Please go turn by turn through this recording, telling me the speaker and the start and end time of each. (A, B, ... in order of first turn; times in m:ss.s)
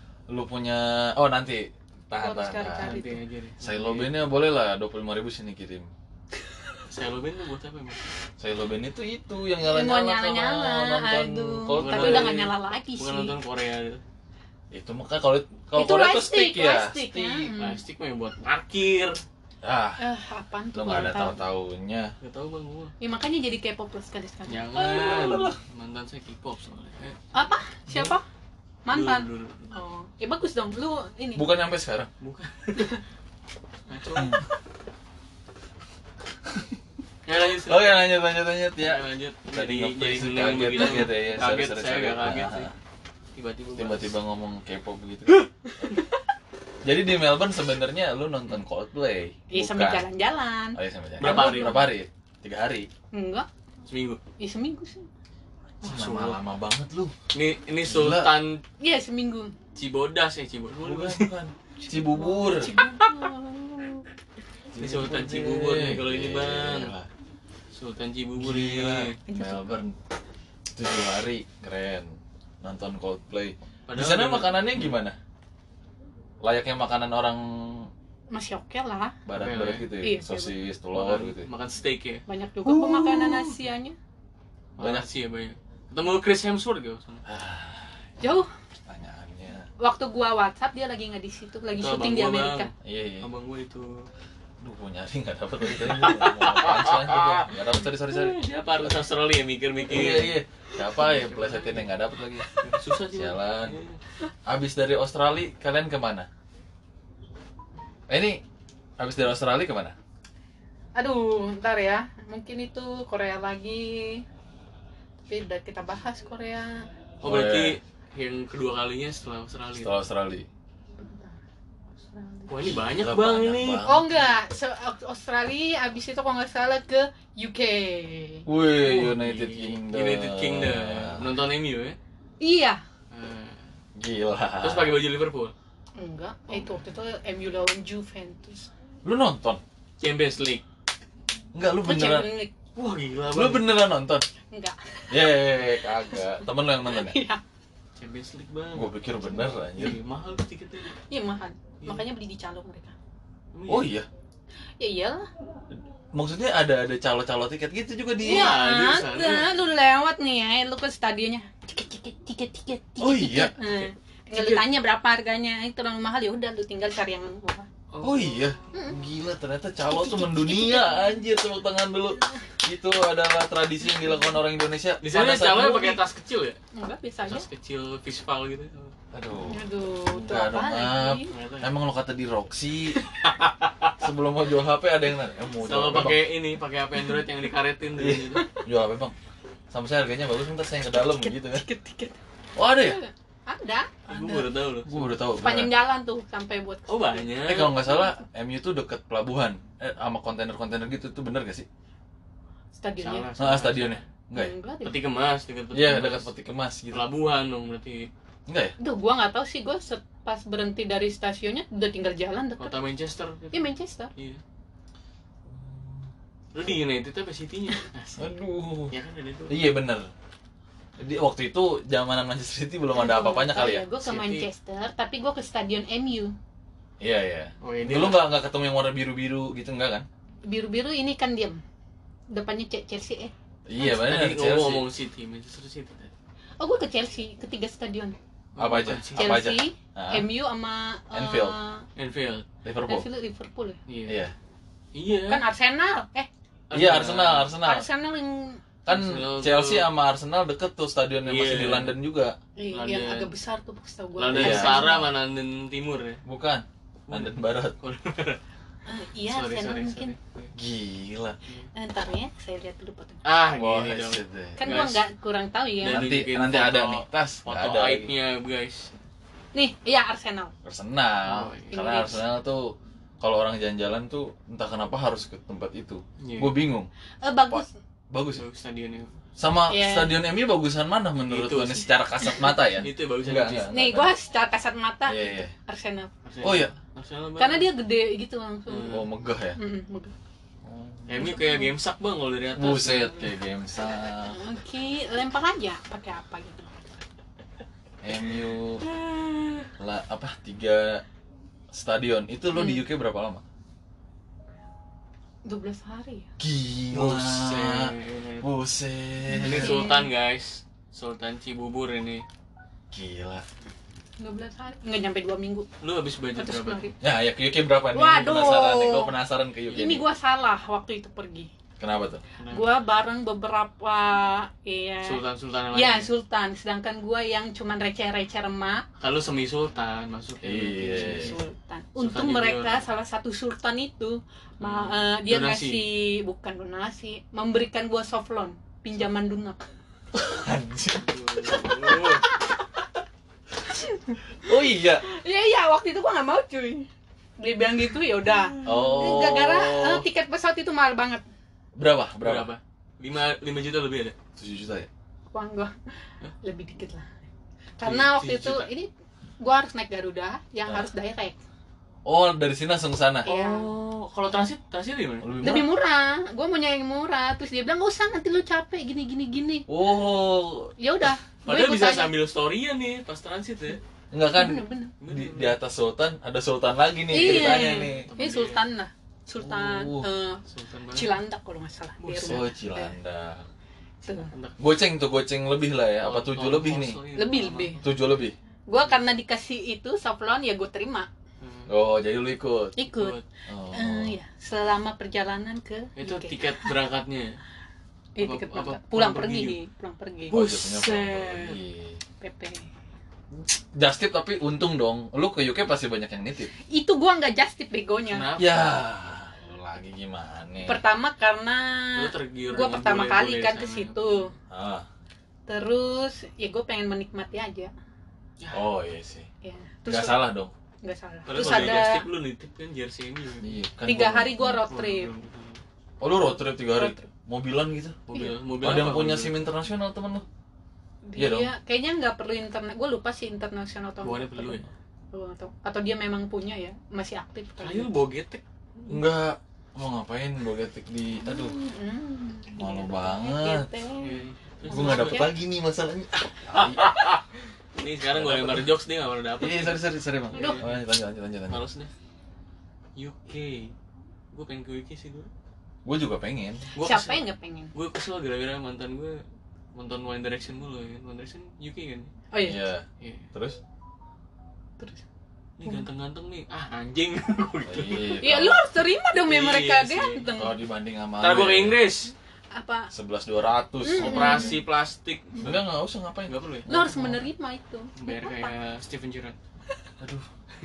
0:00.3-0:02.9 A
0:02.2-0:03.2 B
0:02.8-0:04.2 C
0:03.6-0:05.9 A
0:06.9-0:08.1 C
0:08.4-0:12.4 A
0:09.6-0:13.4 B
0:11.7-0:14.0 C
0:14.7-0:17.5 A
0:15.7-0:17.8 B
0:17.6-0:19.2 C
0:19.6-0:20.0 A
0:20.0-0:21.4 B
0:20.7-0:22.1 A
0:22.2-0:22.9 C
0:23.0-0:24.8 B
0:24.5-0:27.2 C
0:24.7-0:25.6 A
0:27.3-0:28.2 B
0:27.9-0:28.2 A
0:28.8-0:31.5 B
0:28.9-0:29.7 C
0:31.3-0:32.1 A
0:32.2-0:33.0 C
0:33.9-0:34.4 C
0:36.4-0:36.7 A
0:37.2-0:38.1 C
0:37.6-0:42.7 A
0:38.8-0:42.7 C
0:43.3-0:44.1 C
0:43.7-0:45.5 A
0:46.8-0:50.1 A
0:49.5-0:51.9 B
0:50.7-0:52.9 A
0:51.2-0:51.9 C
0:53.1-0:53.5 B
0:53.9-0:54.2 C
0:54.4-0:55.1 B
0:55.8-0:56.4 C
0:55.8-0:57.1 A
0:57.3-0:58.6 C
0:57.8-0:58.4 A
0:58.8-0:59.5 B
0:59.7-1:01.3 C
1:00.8-1:02.7 A
1:01.8-1:04.0 B
1:04.7-1:07.1 A
1:04.8-1:06.9 C
1:07.7-1:09.2 C
1:08.4-1:10.0 A
1:09.3-1:09.6 B
1:10.7-1:15.2 A
1:13.9-1:14.9 C
1:16.4-1:17.9 A
1:18.3-1:19.1 B
1:19.2-1:21.5 A
1:19.3-1:19.9 C
1:20.0-1:20.5 B
1:20.9-1:22.2 C
1:22.3-1:24.0 B
1:22.6-1:23.5 A
1:24.8-1:27.2 C
1:24.8-1:25.0 A
1:27.2-1:28.2 A
1:28.2-1:28.5 B
1:28.8-1:29.7 A
1:29.8-1:32.7 B
1:31.7-1:34.1 C
1:32.8-1:33.3 A
1:34.6-1:39.0 A
1:35.8-1:40.3 C
1:39.8-1:42.5 A
1:41.0-1:41.8 C
1:42.6-1:44.0 C
1:43.1-1:43.8 A
1:44.4-1:46.3 A
1:48.1-1:48.4 A
1:49.0-1:49.9 A
1:51.0-1:54.2 B
1:55.3-1:56.9 B
1:57.2-1:57.8 A
1:57.2-2:00.0 C
1:59.8-2:00.5 A
2:01.0-2:01.4 B
2:01.9-2:02.5 B
2:02.5-2:03.9 C
2:02.6-2:04.1 A
2:03.8-2:08.4 B
2:08.4-2:11.3 A
2:08.8-2:12.0 C
2:12.4-2:12.8 B
2:13.1-2:13.6 C
2:13.9-2:15.0 A
2:14.6-2:15.5 C
2:16.0-2:18.7 B
2:19.0-2:19.6 A
2:20.0-2:20.6 C
2:21.5-2:22.3 A
2:21.8-2:22.5 B
2:22.7-2:23.7 C
2:23.3-2:24.3 A
2:24.5-2:27.4 B
2:25.1-2:27.2 A
2:28.0-2:31.0 C
2:28.7-2:30.0 A
2:31.1-2:32.9 B
2:33.5-2:33.9 C
2:33.7-2:34.1 A
2:34.8-2:35.3 B
2:36.1-2:38.5 A
2:38.2-2:47.7 B
2:38.2-2:39.5 C
2:43.0-2:43.8 A
2:44.3-2:44.7 A
2:47.9-2:48.6 C
2:48.0-2:56.0 A
2:48.7-2:49.0 B
2:49.8-2:51.1 B
2:55.0-2:56.6 C
2:56.7-2:57.4 B
2:57.2-2:58.9 C
2:59.1-3:03.0 A
2:59.5-3:01.3 B
3:01.3-3:01.7 C
3:03.1-3:03.9 C
3:04.0-3:06.2 A
3:05.6-3:08.4 C
3:08.0-3:09.1 A
3:08.3-3:08.6 B
3:09.7-3:11.6 A
3:11.1-3:12.2 B
3:12.6-3:13.0 A
3:12.7-3:14.4 B
3:14.1-3:15.1 C
3:14.8-3:15.7 A
3:15.4-3:17.2 B
3:16.9-3:17.8 C
3:17.4-3:21.6 A
3:22.7-3:23.3 B
3:23.0-3:24.0 C
3:23.4-3:24.5 A
3:24.3-3:25.0 B
3:24.8-3:26.3 C
3:25.7-3:27.0 A
3:26.9-3:28.1 C
3:28.5-3:28.7 A
3:28.8-3:32.8 B
3:32.6-3:34.4 C
3:33.5-3:34.1 B
3:35.5-3:36.0 A
3:36.5-3:38.4 C
3:38.2-3:39.0 A
3:38.9-3:39.6 C
3:39.5-3:40.1 A
3:41.0-3:43.8 A
3:42.9-3:46.3 B
3:44.0-3:44.4 C
3:47.0-3:50.0 A
3:47.6-3:48.2 C
3:50.4-3:51.6 B
3:52.3-3:53.3 B
3:53.7-3:54.8 A
3:53.8-3:56.1 C
3:56.6-3:58.2 B
3:58.6-3:59.4 C
3:58.6-4:00.3 A
3:59.2-4:01.8 B
4:01.1-4:01.6 A
4:02.0-4:02.4 C
4:02.6-4:03.0 A
4:02.9-4:03.8 B
4:03.9-4:04.2 C
4:04.0-4:04.3 A
4:04.9-4:05.4 C
4:05.3-4:06.3 B
4:06.7-4:07.5 C
4:06.7-4:07.8 A
4:07.6-4:08.6 B
4:08.8-4:12.4 A
4:08.9-4:09.9 C
4:11.2-4:12.0 C
4:12.6-4:15.0 B
4:12.7-4:13.3 C
4:14.2-4:16.2 C
4:14.3-4:15.1 A
4:16.2-4:17.7 A
4:17.1-4:18.4 C
4:18.8-4:20.2 B
4:19.3-4:20.5 C
4:20.5-4:21.4 A
4:21.7-4:23.2 B
4:23.2-4:25.0 C
4:23.5-4:24.8 A
4:24.6-4:26.1 B
4:25.8-4:28.9 C
4:25.8-4:28.1 A
4:29.5-4:30.5 B
4:30.6-4:36.9 A
4:31.2-4:31.7 C
4:31.7-4:32.2 B
4:36.2-4:36.6 C
4:37.2-4:37.7 B
4:37.5-4:38.4 A
4:38.3-4:39.1 C
4:39.4-4:44.1 A
4:39.7-4:40.2 B
4:41.3-4:41.9 C
4:42.7-4:43.7 C
4:43.7-4:46.1 B
4:45.1-4:45.5 A
4:46.2-4:47.7 C
4:46.4-4:46.7 A
4:47.4-4:49.0 B
4:48.7-4:49.0 C
4:48.9-4:49.6 A
4:49.6-4:50.1 B
4:50.6-4:51.2 A
4:51.1-4:53.4 C
4:51.2-4:51.7 B
4:52.5-4:54.4 A
4:54.3-4:56.8 B
4:58.0-4:58.8 A
4:58.8-4:59.7 C
4:59.8-5:01.0 A
5:01.7-5:03.4 A
5:02.5-5:02.8 B
5:05.4-5:06.3 B
5:06.4-5:09.9 A
5:06.9-5:08.5 C
5:09.3-5:10.1 B
5:09.4-5:12.2 C
5:12.9-5:13.4 A
5:14.2-5:15.7 B
5:15.8-5:16.9 C
5:16.4-5:16.9 B
5:17.0-5:20.0 A
5:17.9-5:19.1 B
5:19.7-5:21.5 B
5:21.8-5:22.2 A
5:22.4-5:22.7 C
5:22.5-5:25.2 B
5:25.0-5:26.1 C
5:25.7-5:28.8 B
5:29.0-5:31.4 C
5:30.4-5:31.3 A
5:30.9-5:39.6 B
5:32.0-5:32.8 C
5:34.6-5:35.8 C
5:40.1-5:42.2 A
5:40.9-5:42.2 C
5:43.7-5:44.2 B
5:44.4-5:45.0 A
5:45.0-5:51.2 B
5:48.6-5:50.0 A
5:51.7-5:52.5 A
5:52.2-5:54.1 C
5:54.4-5:54.9 A
5:55.3-5:55.7 B
5:56.4-5:57.1 B
5:57.8-5:58.9 B
5:57.8-5:58.7 C
5:59.4-6:01.4 B
6:02.0-6:03.3 A
6:03.2-6:03.7 B
6:03.2-6:05.4 C
6:05.2-6:05.7 A
6:05.4-6:09.7 B
6:09.7-6:10.7 A
6:10.8-6:12.1 B
6:11.4-6:13.8 C
6:14.1-6:18.1 A
6:14.3-6:14.9 B
6:15.0-6:15.6 C
6:17.1-6:22.9 B
6:17.2-6:18.6 C
6:19.4-6:20.1 A
6:20.4-6:21.2 C
6:22.0-6:22.5 C
6:22.2-6:23.4 A
6:24.0-6:24.3 B
6:24.3-6:24.6 C
6:24.6-6:27.0 A
6:26.0-6:27.8 C
6:27.1-6:27.8 B
6:27.8-6:28.3 A
6:28.7-6:31.1 B
6:31.4-6:31.7 C
6:31.7-6:32.8 A
6:32.8-6:33.2 B
6:32.9-6:33.2 C
6:33.5-6:34.1 A
6:33.7-6:36.6 B
6:36.0-6:37.4 C
6:38.2-6:40.4 B
6:38.2-6:39.6 C
6:40.3-6:41.6 C
6:40.3-6:42.0 A
6:42.2-6:42.7 B
6:43.3-6:46.5 A
6:46.7-6:48.3 B
6:48.0-6:48.8 C
6:48.4-6:50.8 A
6:50.6-6:54.3 B
6:52.0-6:54.0 C
6:54.5-6:54.8 A
6:55.5-6:57.7 B
6:58.4-6:58.6 C
6:58.5-6:59.3 A
6:59.4-7:00.2 B
6:59.8-7:00.5 A
7:00.8-7:02.0 B
7:01.3-7:03.5 C
7:01.3-7:01.8 A
7:03.4-7:04.5 A
7:03.8-7:05.1 B
7:04.5-7:05.6 C
7:06.0-7:08.0 A
7:06.6-7:07.1 B
7:08.1-7:09.4 C
7:08.6-7:10.2 A
7:11.0-7:14.6 B
7:11.2-7:11.5 A
7:14.0-7:14.6 C
7:15.1-7:17.9 B
7:17.6-7:19.0 C
7:18.9-7:21.6 A
7:21.2-7:25.3 B
7:22.6-7:23.7 A
7:24.0-7:25.3 C
7:24.7-7:27.0 A
7:26.5-7:27.2 C
7:27.8-7:30.7 C
7:28.1-7:28.7 A
7:29.4-7:31.6 A
7:30.3-7:30.6 B
7:31.5-7:31.9 C
7:33.0-7:33.7 C
7:34.3-7:35.3 C
7:35.8-7:36.7 A
7:36.7-7:39.2 C
7:36.8-7:37.7 B
7:39.7-7:42.1 C
7:42.3-7:42.6 B
7:42.4-7:43.6 A
7:43.0-7:43.3 C
7:45.6-7:48.5 C
7:47.6-7:48.6 A
7:48.2-7:50.5 B
7:49.2-7:50.4 C
7:50.4-7:51.8 A
7:51.2-7:52.1 C
7:52.5-7:52.9 B
7:52.9-7:54.6 A
7:53.8-7:54.6 B
7:53.9-7:55.6 C
7:55.4-7:57.2 A
7:56.3-7:56.7 C
7:56.7-7:58.5 B
7:58.0-7:59.4 C
8:00.0-8:00.3 A